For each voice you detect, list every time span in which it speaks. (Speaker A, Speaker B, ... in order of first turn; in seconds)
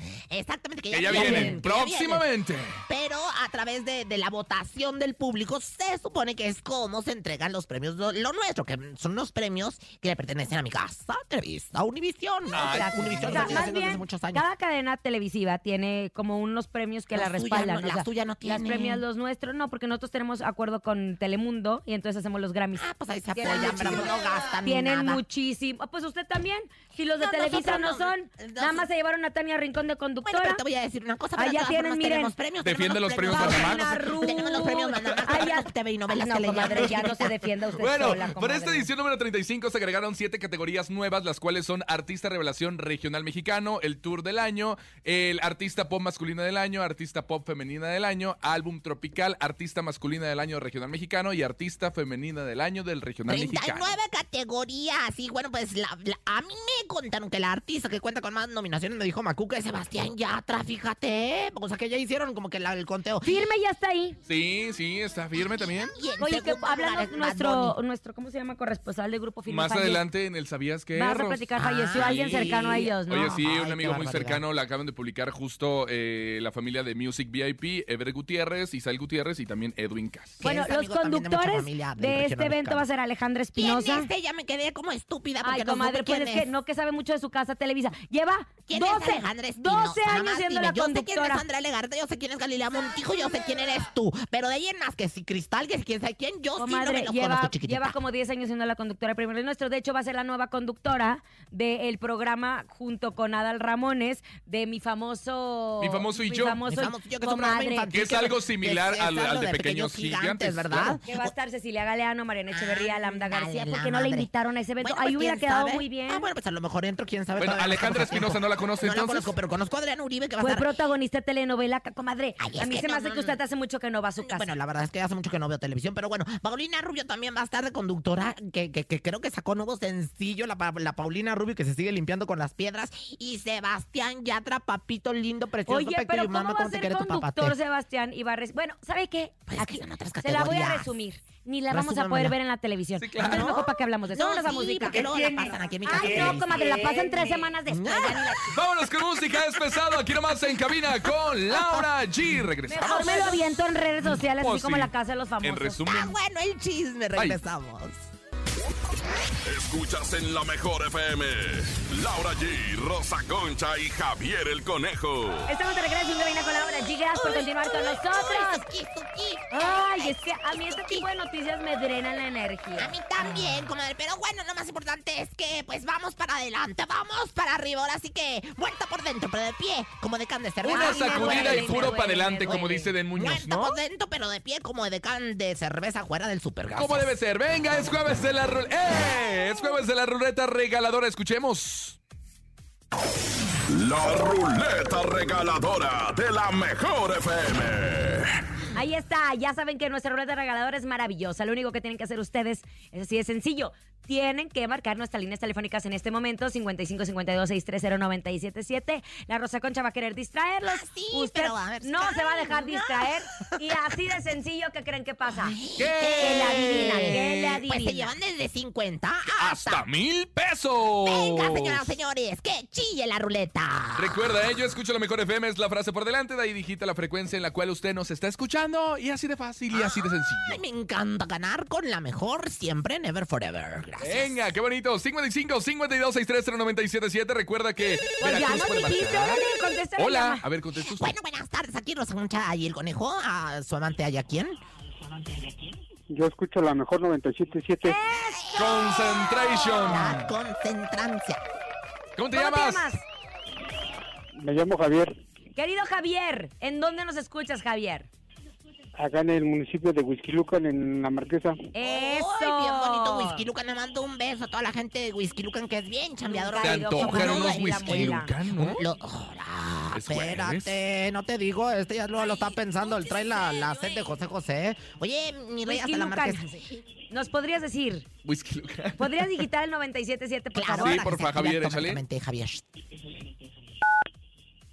Speaker A: 0.3-2.2, 2.9-14.4, 17.1-19.0, 22.8-25.2, 27.1-28.9, 30.2-37.3, 53.3-63.4, 65.4-67.8, 71.5-74.4, 80.4-82.8, 83.5-86.5, 88.7-98.0, 106.7-111.3, 112.5-114.3, 114.8-120.7, 122.4-123.4, 124.2-137.6, 139.5-140.9, 141.7-142.3, 143.2-148.6, 151.5-151.9, 152.7-153.4, 155.8-158.1, 167.1-171.1, 172.8-187.1, 210.7-214.0, 215.4-219.8, 221.0-224.4, 229.7-234.4, 240.8-244.6, 248.2-251.4, 261.8-276.8, 280.5-282.6
Speaker B: 0.9-2.8, 12.5-13.6, 32.6-34.1, 37.8-53.9, 64.2-65.9, 69.5-80.4, 105.8-106.6, 107.9-111.0, 117.4-119.3, 143.0-143.6, 148.5-153.3, 154.0-156.2, 180.6-183.8, 186.7-192.0, 215.8-217.2, 219.3-221.9, 223.9-230.6, 234.0-239.4, 239.9-241.1, 248.5-250.3, 252.2-252.9, 266.6-268.8, 269.9-270.7, 278.2-279.4, 280.8-282.0
Speaker C: 1.1-1.6, 12.6-24.1, 24.6-30.6, 31.4-32.3, 33.2-38.9, 63.2-64.2, 66.2-70.0, 70.9-73.3, 80.4-84.1, 85.4-91.4, 96.6-107.9, 111.1-116.3, 120.4-124.5, 135.7-145.1, 145.8-148.6, 152.7-155.8, 165.5-168.7, 169.5-172.9, 180.6-182.9, 198.7-215.6, 216.2-218.1, 238.2-240.4, 247.8-248.6, 252.3-253.0, 255.6-258.1, 261.7-263.4, 266.2-268.3, 275.6-278.1, 279.0-281.0
Speaker D: 159.4-165.5, 193.7-198.4
Speaker E: 246.1-248.0, 254.3-255.1, 259.0-261.6